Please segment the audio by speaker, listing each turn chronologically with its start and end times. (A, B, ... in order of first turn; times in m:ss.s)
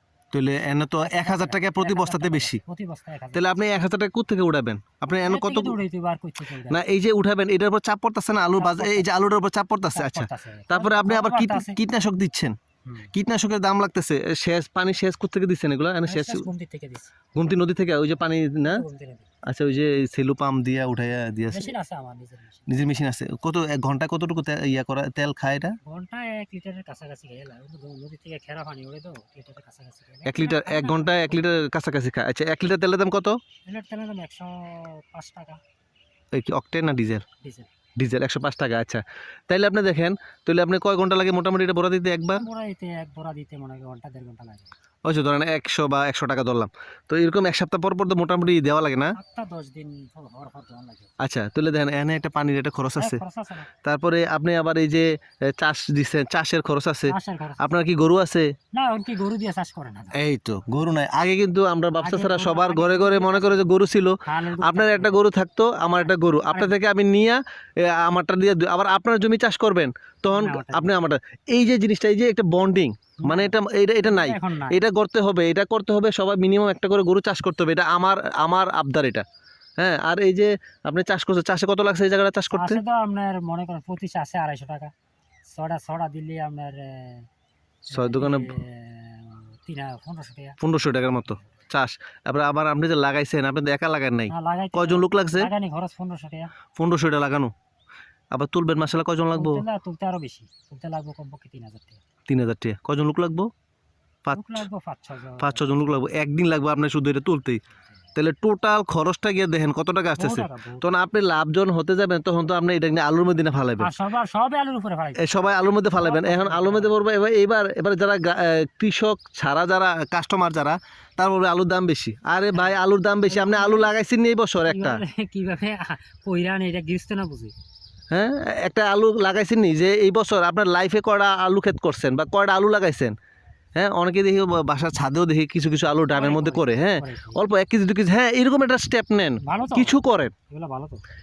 0:00.3-0:02.6 A
0:01.0-0:03.5 B
0:03.3-0:05.8 A
0:05.2-0:06.8 B
0:06.7-0:12.6 A
0:08.5-0:09.1 B
0:09.9-0:11.8 B
0:12.8-0:13.1 B
0:13.1-0:16.5 A
0:16.1-0:17.2 B
0:17.3-0:18.8 A
0:18.6-0:19.3 B
0:19.5-0:21.7 A
0:21.5-0:22.7 B
0:22.7-0:25.8 A
0:25.8-0:31.4 B
0:30.2-0:33.4 A
0:33.6-0:35.6 B
0:36.3-0:37.2 A
0:37.4-0:37.7 B
0:38.0-0:42.4 A
0:42.3-0:44.7 B
0:45.0-0:49.2 A
0:49.2-0:51.1 B
0:51.2-0:53.2 A
0:53.0-0:53.7 B
0:53.8-0:58.5 A
0:57.1-0:57.7 B
0:58.7-1:00.2 B
1:00.1-1:19.2 A
1:02.0-1:03.7 B
1:04.2-1:05.2 B
1:06.0-1:06.7 B
1:10.3-1:10.9 B
1:13.2-1:14.8 B
1:19.8-1:22.8 A
1:22.5-1:24.9 B
1:25.5-1:27.3 B
1:27.9-1:30.6 B
1:27.9-1:28.5 A
1:30.6-1:35.5 A
1:34.3-1:36.5 B
1:36.8-1:37.5 A
1:38.3-1:39.6 A
1:39.3-1:42.0 B
1:42.3-1:43.5 A
1:44.2-1:44.6 A
1:44.4-1:46.0 B
1:45.4-1:47.6 A
1:48.2-1:53.9 A
1:50.1-1:50.8 B
1:53.8-1:55.4 B
1:55.2-2:05.0 A
1:55.9-1:56.9 B
2:02.5-2:03.9 B
2:04.6-2:07.5 B
2:08.1-2:13.1 A
2:13.8-2:20.3 A
2:16.1-2:17.4 B
2:19.4-2:21.0 B